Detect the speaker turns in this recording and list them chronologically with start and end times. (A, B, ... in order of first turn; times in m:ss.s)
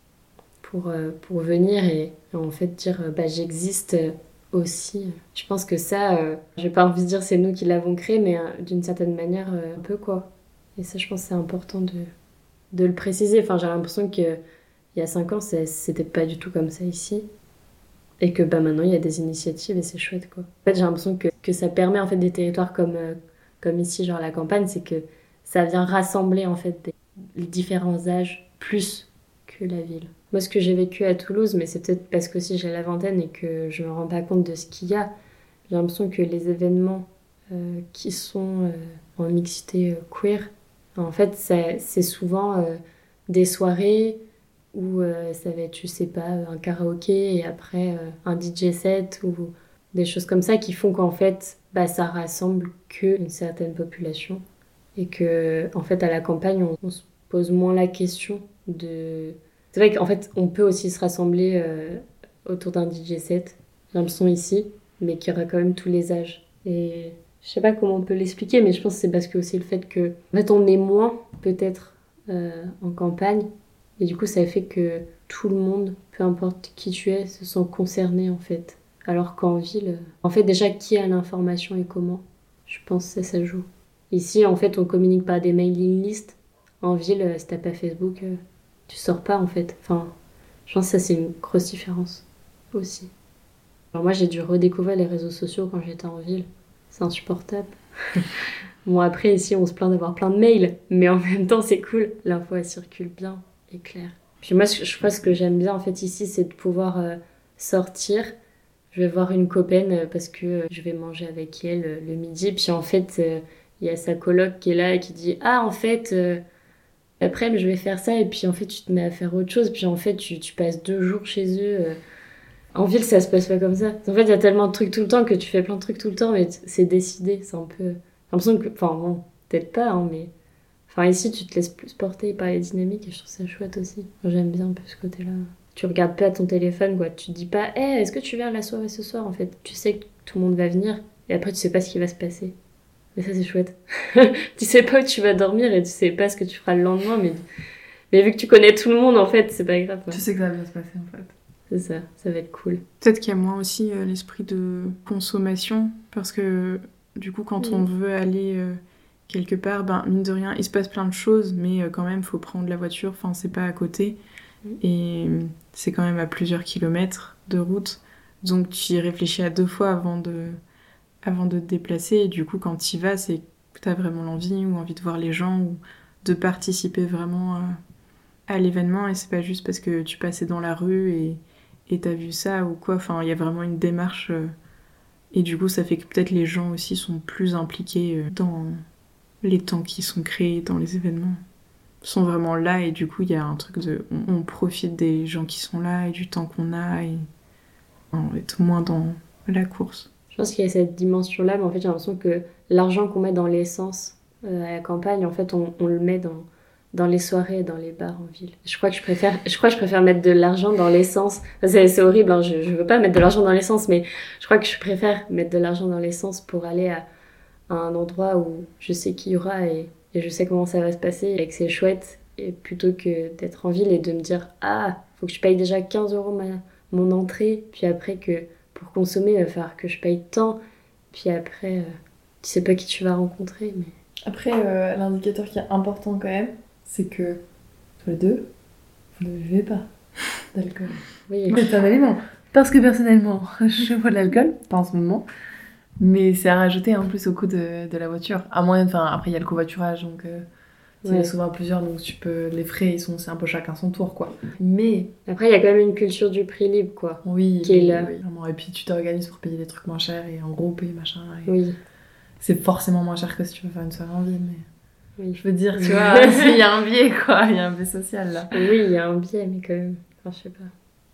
0:00.6-0:12.1 A
0:12.7-0:14.4 A
0:14.9-0:17.3 A
0:18.2-0:35.1 A
0:35.7-0:44.2 A
0:44.7-0:54.4 A
0:55.0-1:30.1 A
1:30.7-1:33.1 A
1:33.9-1:38.3 A
1:38.8-1:48.3 A
1:48.9-1:56.4 A
1:57.2-2:02.0 A
2:02.7-2:10.3 A
2:10.9-2:22.5 A
2:23.1-2:27.4 A
2:28.1-2:30.2 A
2:30.1-2:31.3 B
2:31.7-2:32.8 A
2:33.0-2:44.2 C
2:44.8-2:50.6 C
2:51.2-2:57.8 C
2:58.5-3:04.5 C
3:05.3-3:08.8 C
3:09.4-3:11.4 C
3:12.0-3:17.2 C
3:18.1-3:20.1 C
3:20.3-3:37.0 A
3:37.7-3:50.6 A
3:51.1-3:53.9 A
3:54.2-3:57.4 B
3:58.0-3:58.5 B
3:59.2-3:59.9 B
4:00.5-4:01.0 B
4:01.3-4:01.6 A
4:01.5-4:05.3 B
4:06.0-4:10.4 B
4:11.0-4:11.3 A
4:11.0-4:15.1 B
4:15.2-4:18.1 A
4:17.2-4:21.5 B
4:21.5-4:21.8 A
4:22.4-4:24.6 B
4:25.2-4:26.5 A
4:25.4-4:28.5 B
4:28.5-4:30.7 A